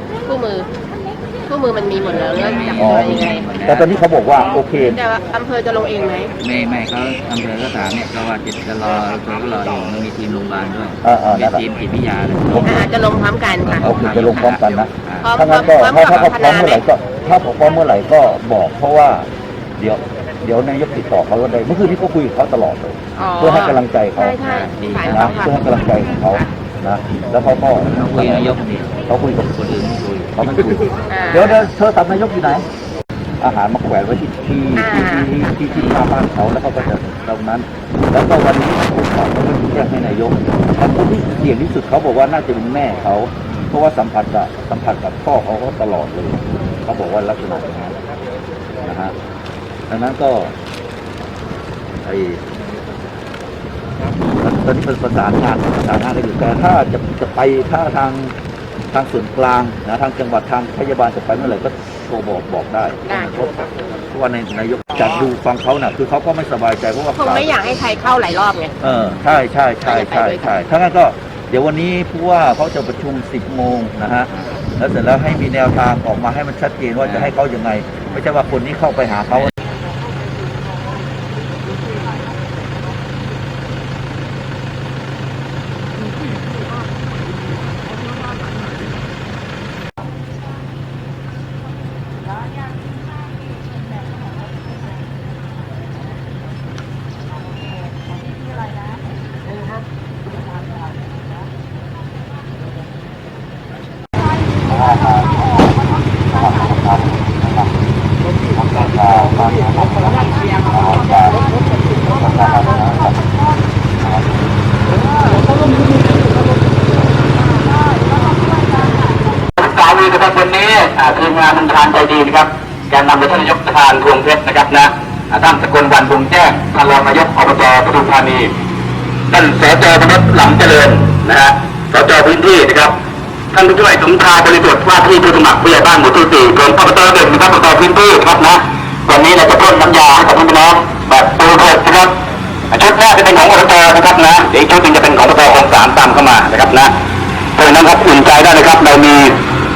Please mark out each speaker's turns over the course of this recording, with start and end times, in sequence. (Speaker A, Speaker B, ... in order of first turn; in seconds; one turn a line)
Speaker A: 0.2-0.7
Speaker A: 1.4-3.5
Speaker B: 2.4-3.9
Speaker C: 2.8-5.0
Speaker A: 4.8-6.3
Speaker B: 6.4-12.9
Speaker C: 11.0-11.6
Speaker A: 12.6-14.1
Speaker B: 13.6-15.4
Speaker C: 13.8-19.3
Speaker A: 15.2-16.9
Speaker C: 19.8-24.4
Speaker A: 23.2-25.5
Speaker B: 24.4-25.4
Speaker C: 25.1-28.5
Speaker B: 27.9-28.9
Speaker C: 29.1-29.6
Speaker B: 29.5-30.9
Speaker C: 30.3-32.7
Speaker A: 31.1-31.7
Speaker C: 33.4-48.0
Speaker A: 34.8-35.3
Speaker C: 48.8-49.1
Speaker C: 49.9-50.5
Speaker C: 52.0-52.4
Speaker C: 54.4-58.4
Speaker C: 58.9-67.5
Speaker A: 63.0-63.3
Speaker A: 67.2-68.8
Speaker C: 68.8-79.5
Speaker B: 68.8-69.3
Speaker A: 69.8-70.5
Speaker B: 77.0-77.3
Speaker C: 104.8-105.1
Speaker C: 106.5-107.3
Speaker C: 108.6-110.0
Speaker C: 110.6-111.5
Speaker C: 112.1-113.1
Speaker D: 119.6-128.5
Speaker D: 129.3-132.9
Speaker D: 133.5-142.2
Speaker D: 142.7-146.9
Speaker D: 147.6-149.4